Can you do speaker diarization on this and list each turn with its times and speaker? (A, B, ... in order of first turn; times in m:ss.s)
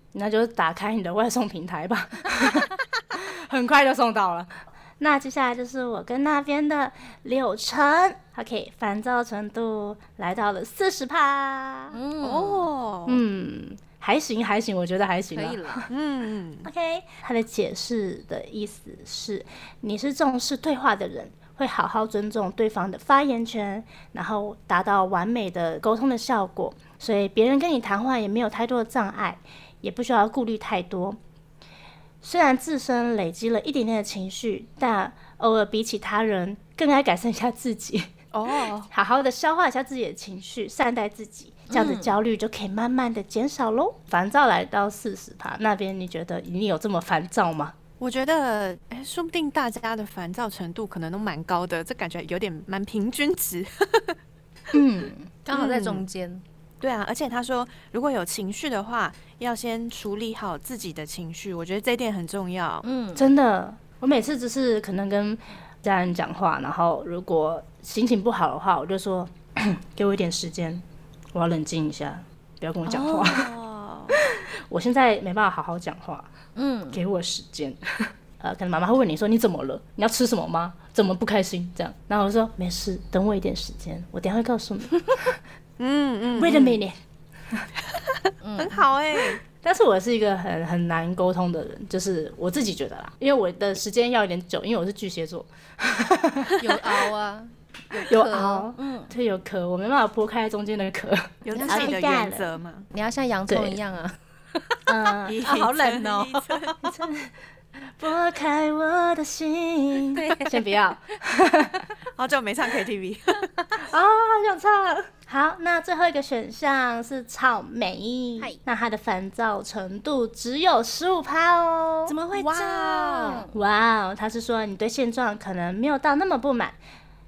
0:00.1-0:12.0 A
0:11.9-0:12.7 B
0:12.2-0:13.2 C
0:13.0-0:15.9 A
0:15.3-0:15.8 B
0:15.9-0:16.7 C
0:16.6-0:31.2 A
0:32.2-0:38.1 A
0:38.3-0:38.9 C
0:38.9-0:47.8 A
0:41.7-0:42.1 B
0:48.0-0:54.2 C
0:54.7-0:55.3 A
0:55.4-0:56.4 B
0:55.5-0:56.0 C
0:56.8-1:02.8 C
1:02.8-1:03.2 B
1:03.2-1:10.8 A
1:11.3-1:13.5 A
1:12.9-1:13.3 B
1:13.0-1:14.2 C
1:14.1-1:16.3 A
1:16.6-1:17.0 B
1:16.9-1:25.4 A
1:25.8-1:26.8 C
1:26.4-1:27.0 A
1:27.8-1:29.4 C
1:28.4-1:28.8 B
1:29.6-1:36.6 A
1:36.6-1:39.1 B
1:38.0-1:42.5 A
1:41.4-1:42.9 C
1:41.5-1:42.0 B
1:42.9-1:44.9 B
1:43.5-1:43.8 A
1:44.9-1:45.4 A
1:45.2-1:47.0 C
1:45.4-1:46.7 B
1:46.8-1:47.3 A
1:48.0-1:51.9 A
1:50.1-1:50.6 B
1:52.1-1:53.5 C
1:53.8-2:02.6 A
2:02.1-2:03.5 B
2:02.4-2:03.5 C
2:03.2-2:06.8 A